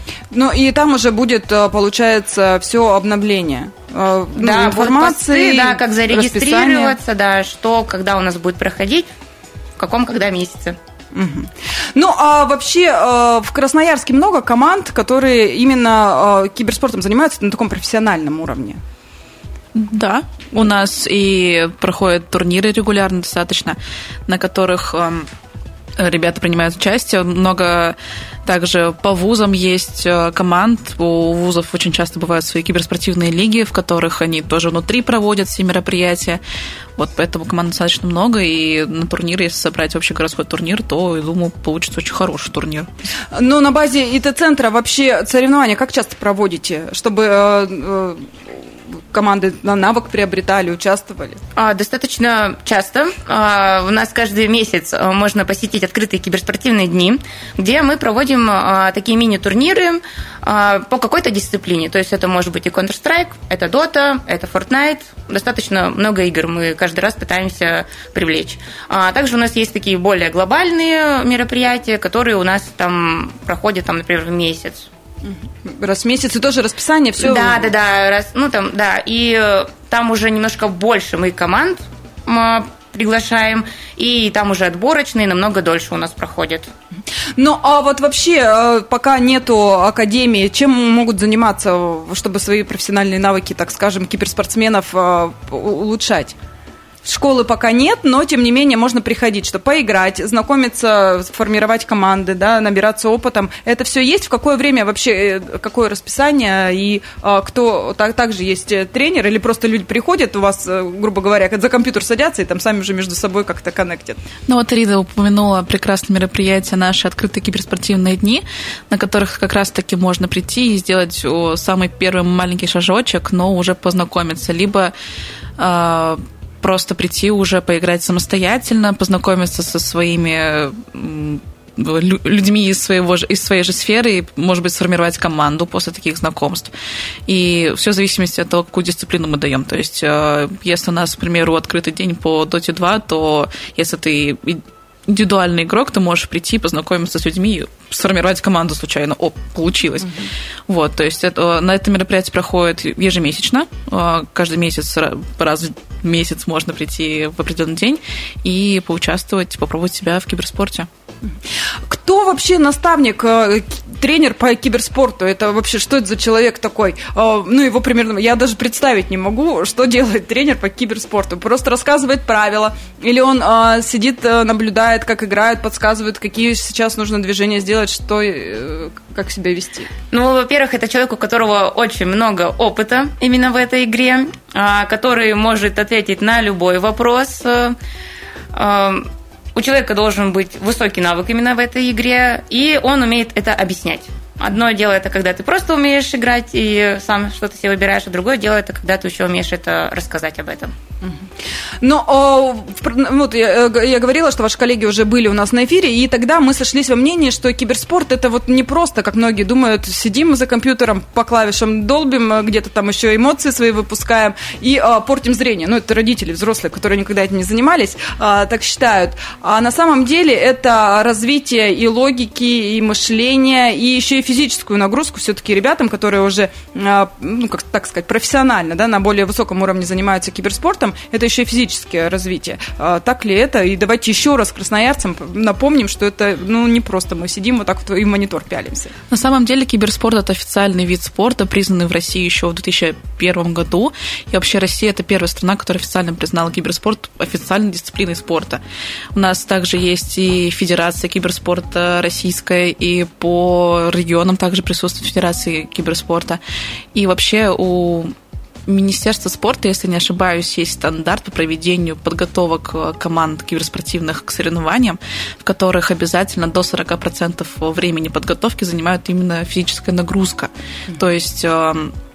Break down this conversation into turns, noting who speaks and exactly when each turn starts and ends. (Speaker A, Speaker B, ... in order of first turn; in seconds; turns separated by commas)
Speaker A: 0.3-7.0, Speaker B: 4.3-9.1, Speaker B: 9.8-10.8, Speaker A: 11.1-18.8, Speaker C: 19.7-25.3, Speaker C: 26.0-36.4, Speaker C: 37.0-42.9, Speaker A: 43.3-51.4, Speaker B: 51.5-74.9, Speaker A: 75.2-77.7, Speaker B: 77.2-86.7, Speaker A: 87.4-96.3, Speaker A: 97.0-114.2, Speaker C: 114.5-124.9, Speaker C: 125.6-136.7, Speaker C: 137.3-160.9, Speaker A: 161.8-179.9, Speaker B: 180.1-187.8, Speaker B: 188.5-200.7, Speaker A: 201.8-238.9, Speaker C: 239.1-248.6, Speaker C: 249.1-256.4, Speaker C: 256.9-258.1, Speaker C: 258.7-271.9